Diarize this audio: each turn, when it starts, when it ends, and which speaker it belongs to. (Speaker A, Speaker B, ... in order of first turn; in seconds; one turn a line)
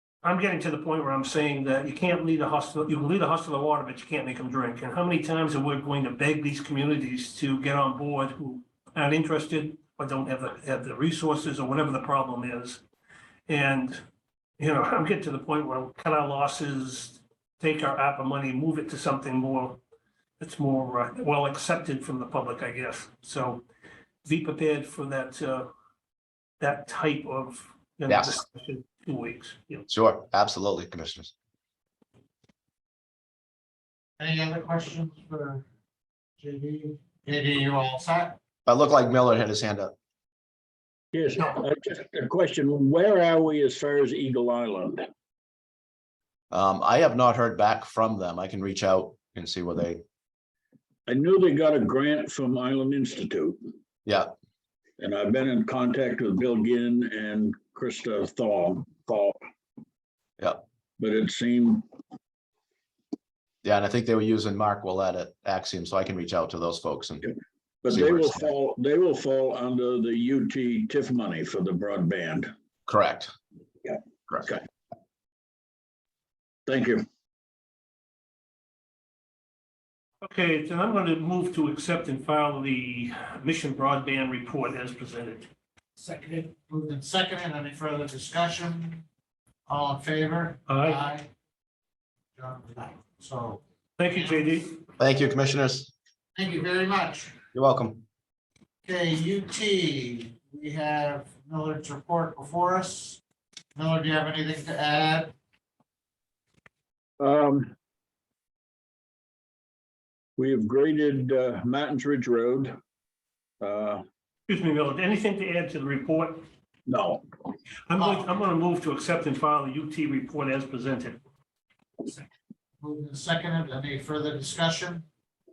Speaker A: 0.2-12.8
Speaker A: 13.5-14.0
Speaker A: 14.6-19.8
Speaker A: 20.4-23.6
Speaker A: 24.2-25.7
Speaker A: 26.6-29.9
Speaker B: 28.1-28.3
Speaker B: 29.9-31.3
Speaker C: 34.2-35.6
Speaker C: 36.4-38.4
Speaker B: 38.6-39.9
Speaker D: 41.1-45.0
Speaker B: 46.5-50.0
Speaker D: 51.1-53.6
Speaker B: 54.0-54.3
Speaker D: 55.0-59.4
Speaker D: 61.0-61.8
Speaker B: 63.6-67.3
Speaker D: 67.8-72.5
Speaker B: 67.9-68.5
Speaker B: 72.9-73.3
Speaker D: 73.8-74.6
Speaker B: 74.3-74.5
Speaker D: 76.7-77.0
Speaker A: 80.2-85.5
Speaker C: 86.4-89.0
Speaker C: 89.7-91.3
Speaker A: 90.7-91.0
Speaker C: 92.3-93.6
Speaker A: 94.0-94.7
Speaker C: 94.1-94.5
Speaker B: 95.0-95.9
Speaker C: 96.3-97.3
Speaker B: 97.5-98.0
Speaker C: 98.8-103.2
Speaker C: 103.7-105.3
Speaker D: 107.2-107.7
Speaker D: 110.4-112.7
Speaker D: 113.6-114.0
Speaker A: 114.5-116.4
Speaker D: 116.9-117.2
Speaker A: 117.9-121.2
Speaker C: 118.0-118.3
Speaker C: 122.8-125.0